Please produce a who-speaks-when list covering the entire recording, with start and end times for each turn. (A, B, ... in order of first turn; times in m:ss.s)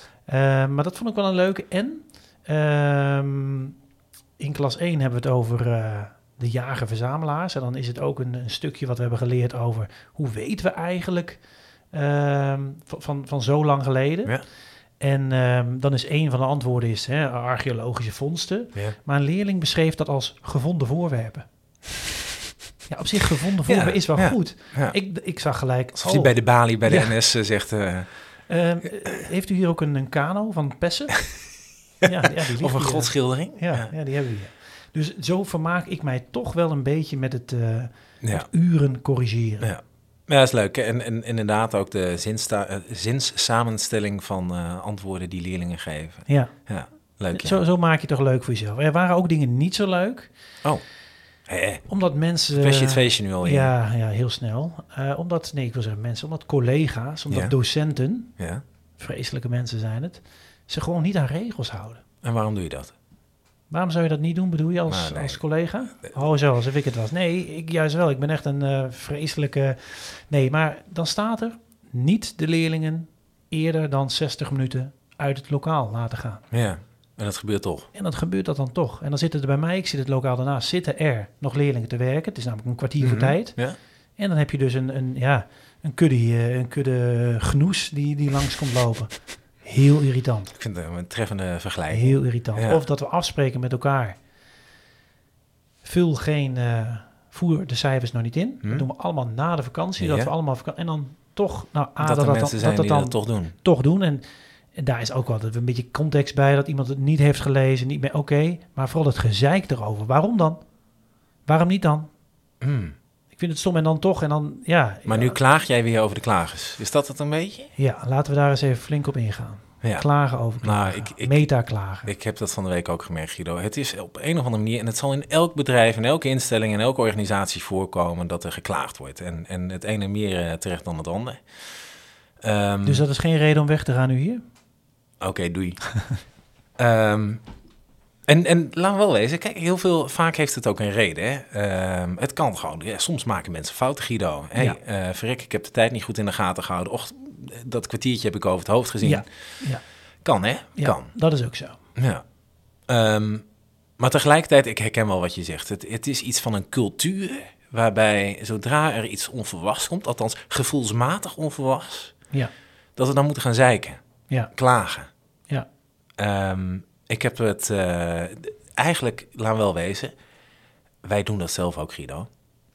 0:00.2-0:03.7 A
0:04.4-0:11.4 A
0:11.9-0:14.4 A
0:15.0-0:21.5 A
0:22.8-0:27.2 A
0:23.6-0:25.0 B
0:25.9-0:28.1 B
0:28.5-0:31.3 A
0:32.0-0:33.9 B
0:32.0-0:39.7 A
0:38.2-0:38.5 B
0:39.6-0:47.6 B
0:46.2-0:46.5 A
0:47.3-0:50.3 A
0:51.5-0:51.8 B
0:51.9-0:58.3 A
0:52.5-0:53.7 B
0:57.3-0:57.5 B
0:58.4-0:58.6 B
0:59.0-1:02.0 A
1:02.2-1:02.9 B
1:03.7-1:16.4 A
1:04.9-1:05.4 B
1:16.5-1:17.9 B
1:17.9-1:23.6 A
1:23.0-1:23.8 B
1:24.2-1:30.5 A
1:30.5-1:32.8 B
1:31.9-1:34.2 A
1:35.8-1:50.6 A
1:40.0-1:40.3 B
1:42.0-1:43.5 B
1:51.4-1:52.1 A
1:52.6-1:53.0 B
1:53.3-1:55.4 A
1:55.0-1:57.7 B
1:57.8-2:02.1 A
2:00.6-2:01.5 B
2:02.0-2:11.4 B
2:12.4-2:13.0 B
2:12.8-2:14.4 A
2:15.2-2:15.8 B
2:16.8-2:17.4 B
2:18.3-2:29.2 B
2:29.0-2:29.8 A
2:30.2-2:31.1 B
2:30.8-2:31.8 A
2:32.0-2:32.2 B
2:32.9-2:33.4 B
2:34.0-2:42.1 B
2:43.0-2:44.0 B
2:44.5-2:45.1 B
2:46.2-2:50.1 B
2:51.0-2:52.3 B